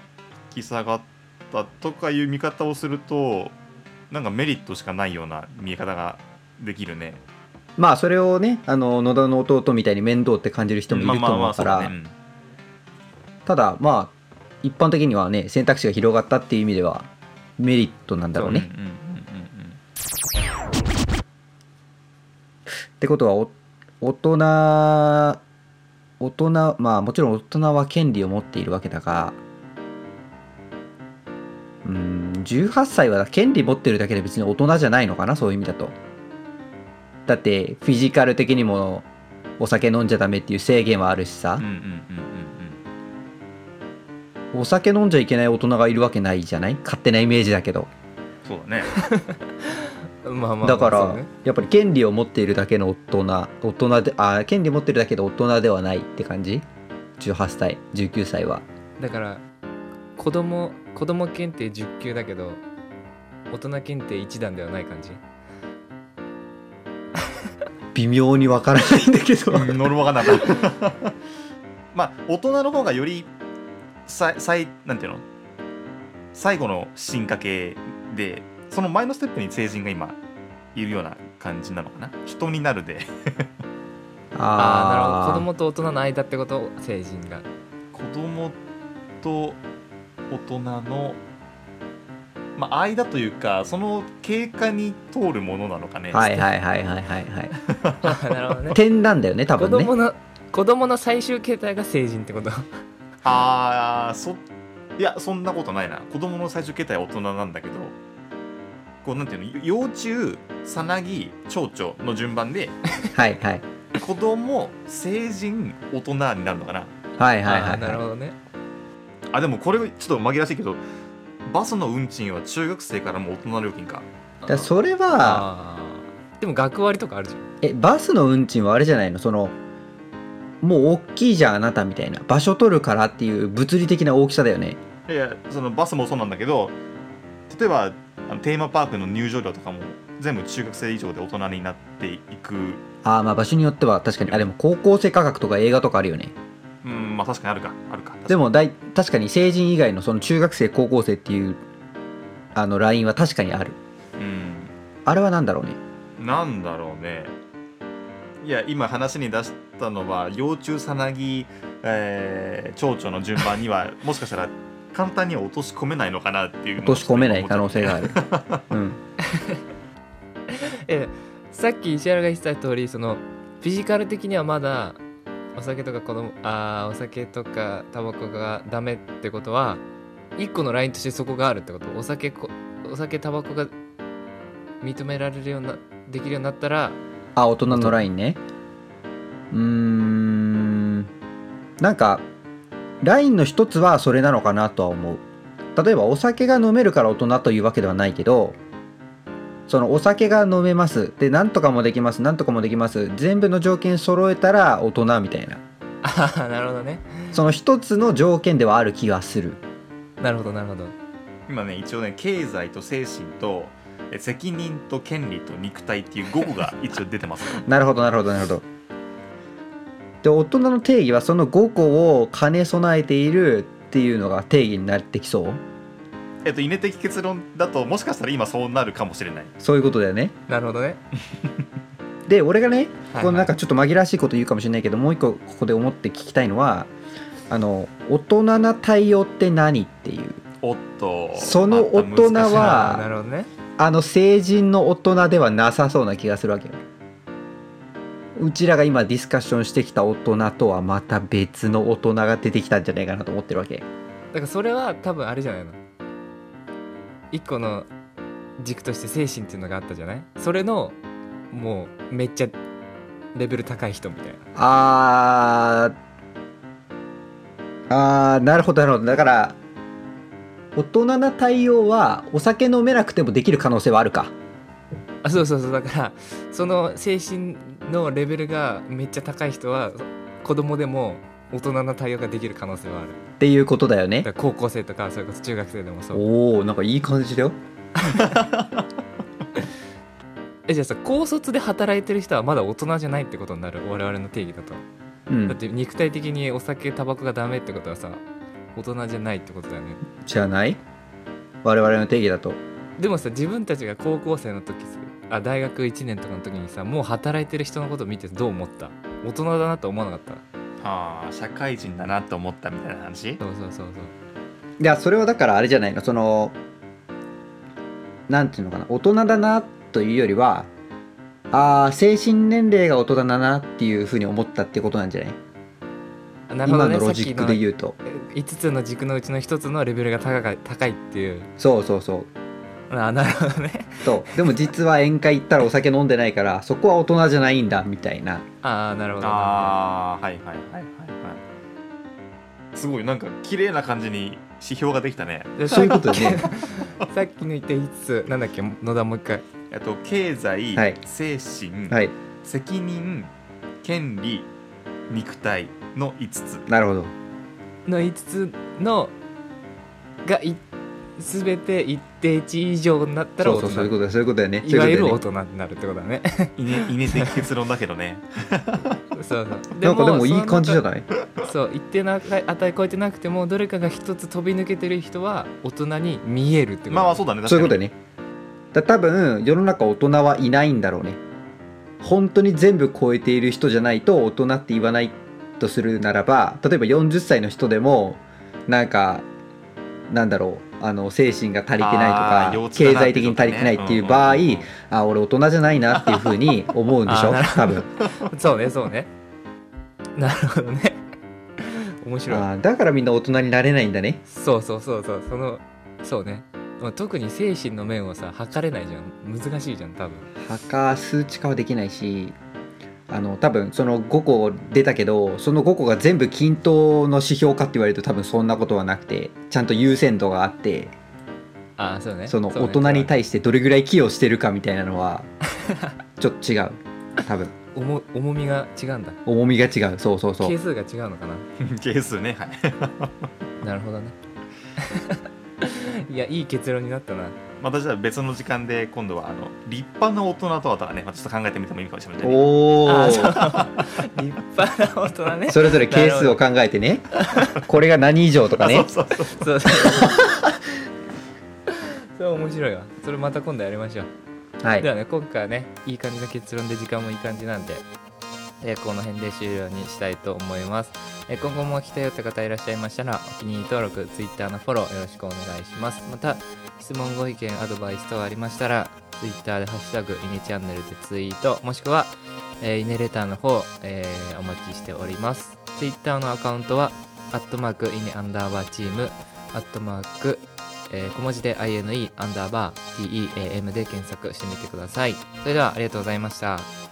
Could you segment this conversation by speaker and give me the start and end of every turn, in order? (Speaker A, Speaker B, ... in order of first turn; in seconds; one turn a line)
Speaker A: 0.5-3.6
Speaker A: 4.1-7.2
Speaker B: 7.8-11.9
Speaker A: 10.9-12.2
Speaker B: 13.5-18.7
Speaker A: 18.3-19.8
Speaker B: 23.0-25.4
Speaker B: 26.2-29.4
Speaker B: 31.8-36.0
Speaker B: 37.3-39.1
Speaker B: 39.6-41.6
Speaker A: 41.6-42.8
Speaker B: 44.5-47.9
Speaker A: 48.5-49.0
Speaker C: 48.9-51.3
Speaker B: 50.6-56.6
Speaker B: 57.2-58.7
Speaker C: 59.0-59.4
Speaker C: 60.2-62.6
Speaker C: 63.5-65.2
Speaker B: 67.9-69.8
Speaker A: 69.5-71.1
Speaker A: 71.9-73.3
Speaker A: 74.1-75.2
Speaker A: 76.3-80.2
Speaker A: 80.8-83.5
Speaker B: 84.3-85.5
Speaker C: 84.6-87.5
Speaker A: 87.9-88.6
Speaker A: 89.2-89.6
Speaker A: 90.3-91.2
Speaker A: 92.6-96.3
Speaker B: 96.1-97.5
Speaker C: 96.2-96.4
Speaker A: 97.7-98.2
Speaker C: 98.0-98.8
Speaker B: 98.7-99.9
Speaker C: 99.6-102.8
Speaker A: 103.2-104.4
Speaker A: 105.0-108.0
Speaker A: 109.0-112.8
Speaker B: 113.1-113.6
Speaker A: 114.0-116.9
Speaker B: 117.2-118.0
Speaker C: 117.5-118.4
Speaker A: 119.3-120.8
Speaker A: 121.5-124.1
Speaker C: 124.4-127.4
Speaker B: 124.5-125.5
Speaker B: 127.6-129.6
Speaker B: 130.6-134.8
Speaker A: 135.1-136.8
Speaker A: 137.5-142.8
Speaker B: 143.0-146.3
Speaker A: 146.8-148.5
Speaker B: 148.3-151.6
Speaker B: 152.6-153.8
Speaker A: 154.2-154.7
Speaker B: 155.1-155.8
Speaker A: 156.2-157.3
Speaker A: 158.4-168.6
Speaker B: 166.8-168.2
Speaker B: 168.7-169.0
Speaker C: 169.3-169.6
Speaker C: 170.5-175.0
Speaker C: 175.6-179.8
Speaker C: 180.4-183.7
Speaker C: 184.8-187.0
Speaker B: 187.4-188.4
Speaker C: 187.7-188.0
Speaker B: 189.5-191.1
Speaker B: 191.8-192.3
Speaker B: 193.0-195.2
Speaker B: 195.8-198.6
Speaker B: 199.7-205.6
Speaker C: 206.0-207.4
Speaker B: 207.3-209.6
Speaker C: 210.2-210.9
Speaker A: 211.5-217.6
Speaker B: 217.6-218.6
Speaker B: 220.2-225.6
Speaker A: 226.4-229.5
Speaker B: 229.6-230.3
Speaker C: 230.5-231.0
Speaker B: 232.3-236.9
Speaker C: 233.1-233.5
Speaker B: 237.5-240.4
Speaker A: 240.6-242.9
Speaker B: 241.4-243.1
Speaker C: 242.4-243.5
Speaker B: 243.8-246.8
Speaker B: 248.4-253.8
Speaker C: 254.3-255.8
Speaker C: 257.3-257.9
Speaker C: 258.6-261.0
Speaker C: 261.5-262.6
Speaker C: 263.3-264.4
Speaker B: 264.6-265.9
Speaker B: 267.9-269.6
Speaker B: 270.8-274.3
Speaker C: 275.2-283.2
Speaker B: 283.4-284.3
Speaker C: 284.2-286.2
Speaker B: 286.1-287.6
Speaker C: 288.1-288.3
Speaker A: 288.1-288.8
Speaker C: 290.7-294.8
Speaker B: 295.3-295.6
Speaker C: 295.5-298.2
Speaker C: 298.8-300.0
Speaker B: 300.2-300.8
Speaker B: 301.6-302.6
Speaker C: 303.0-310.4
Speaker A: 310.8-313.4
Speaker C: 313.4-314.1
Speaker B: 314.8-316.6
Speaker B: 318.3-320.7
Speaker B: 321.5-325.4
Speaker C: 326.5-331.5
Speaker B: 326.6-328.0
Speaker B: 331.6-332.3
Speaker C: 332.9-334.7
Speaker B: 334.1-338.4
Speaker C: 338.6-339.8
Speaker A: 339.2-341.4
Speaker A: 342.8-346.4
Speaker C: 345.6-349.4
Speaker B: 345.7-346.4
Speaker A: 349.7-354.5
Speaker A: 355.1-356.7
Speaker B: 356.7-357.1
Speaker C: 357.9-359.1
Speaker C: 360.2-360.6
Speaker C: 361.2-363.9
Speaker B: 363.4-365.2
Speaker C: 364.6-367.3
Speaker A: 366.6-369.0
Speaker C: 369.1-370.8
Speaker B: 369.8-371.1
Speaker C: 371.4-377.2
Speaker A: 376.9-377.8
Speaker B: 377.5-377.9
Speaker B: 378.7-381.2
Speaker B: 382.0-389.3
Speaker B: 390.1-397.9
Speaker A: 391.8-394.7
Speaker A: 396.0-396.3
Speaker C: 397.1-399.1
Speaker C: 400.2-401.0
Speaker C: 401.6-402.5
Speaker B: 402.3-404.2
Speaker C: 404.3-410.3
Speaker B: 410.4-412.4
Speaker B: 413.1-420.9
Speaker C: 421.8-423.1
Speaker B: 422.3-425.3
Speaker B: 426.2-427.5
Speaker C: 427.7-429.2
Speaker B: 429.3-430.6
Speaker C: 430.4-431.5
Speaker A: 431.6-433.3
Speaker C: 433.6-434.2
Speaker C: 434.8-437.4
Speaker A: 437.6-442.5
Speaker B: 442.2-443.4
Speaker C: 442.9-446.4
Speaker A: 443.0-443.9
Speaker B: 445.5-448.9
Speaker A: 448.6-450.0
Speaker C: 449.3-450.2
Speaker C: 452.1-454.1
Speaker B: 454.6-454.9
Speaker C: 454.8-457.9
Speaker C: 458.6-486.7